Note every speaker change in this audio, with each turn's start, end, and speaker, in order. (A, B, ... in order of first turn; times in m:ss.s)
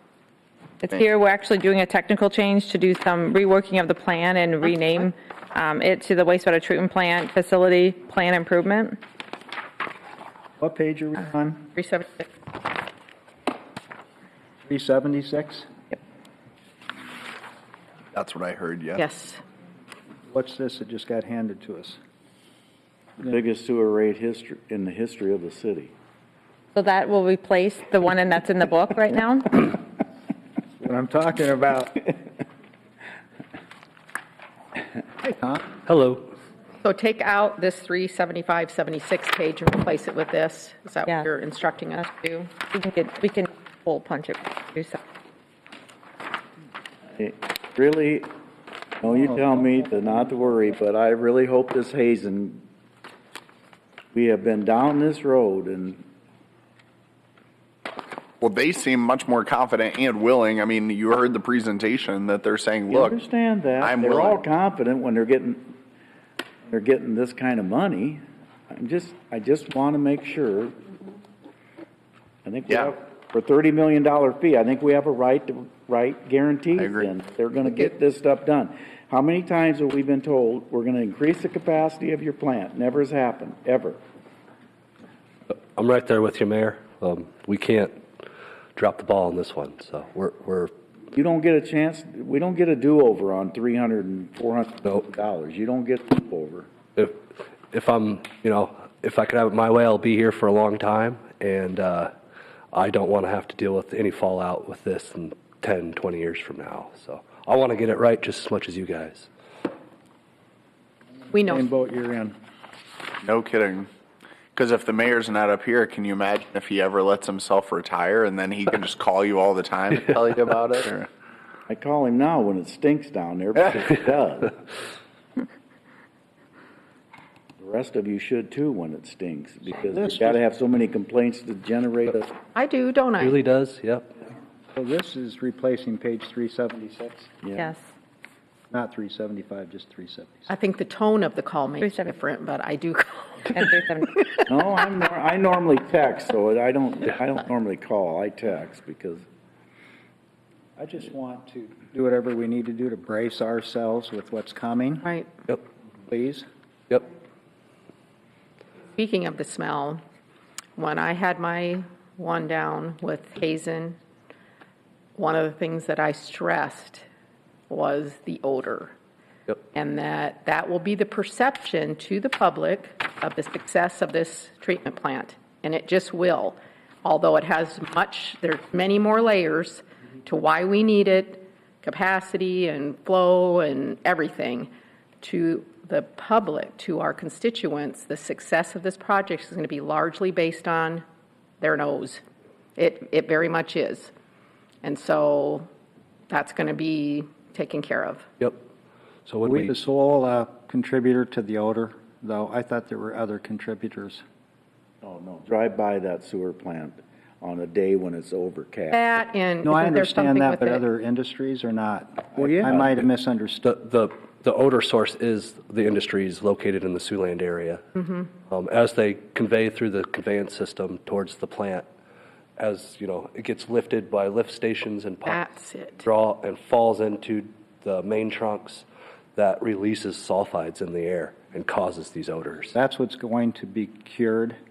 0:00.8-0:09.0 A
0:10.6-0:11.7 B
0:11.8-0:12.3 C
0:14.6-0:15.7 B
0:18.1-0:19.0 D
0:19.0-0:19.4 C
0:20.3-0:22.0 B
0:23.2-0:25.9 E
0:26.7-0:29.7 A
0:30.8-0:32.1 B
0:35.2-0:35.6 B
0:35.8-0:36.3 F
0:36.8-0:42.5 C
0:42.5-0:45.0 A
0:47.2-0:48.3 E
0:49.0-0:52.6 E
0:54.1-0:56.0 E
0:58.4-1:03.2 D
1:02.9-1:05.7 E
1:03.8-1:04.4 D
1:06.7-1:10.7 E
1:12.4-1:24.0 E
1:16.8-1:17.1 D
1:25.5-1:28.0 F
1:28.8-1:30.7 F
1:31.1-1:36.7 E
1:37.7-1:42.1 F
1:42.7-1:49.3 F
1:51.3-1:51.7 C
1:51.4-1:52.4 B
1:53.2-1:53.9 D
1:54.5-2:01.1 D
2:01.7-2:04.5 E
2:07.6-2:12.4 E
2:09.8-2:10.4 B
2:12.5-2:13.4 C
2:13.2-2:14.1 F
2:14.8-2:17.4 B
2:17.4-2:17.7 E
2:17.6-2:17.8 A
2:18.7-2:20.5 B
2:20.5-2:23.6 C
2:21.8-2:22.2 A
2:23.5-2:24.2 A
2:24.5-2:29.2 E
2:30.8-2:35.1 B
2:36.1-2:36.4 B
2:38.9-2:40.0 C
2:40.8-2:44.0 C
2:45.2-2:47.1 C
2:47.7-2:48.9 C
2:49.7-3:04.7 C
3:05.2-3:11.0 C
3:11.6-3:12.2 C
3:12.8-3:14.1 C
3:14.8-3:15.7 C
3:16.3-3:18.2 C
3:19.2-3:19.7 F
3:19.4-3:24.2 B
3:25.0-3:29.0 E
3:28.9-3:30.8 C
3:29.6-3:33.7 B
3:32.3-3:32.9 E
3:33.6-3:37.8 F
3:38.5-3:41.8 F
3:42.6-3:45.4 F
3:45.2-3:46.1 C
3:46.0-3:52.7 F
3:52.7-3:54.6 B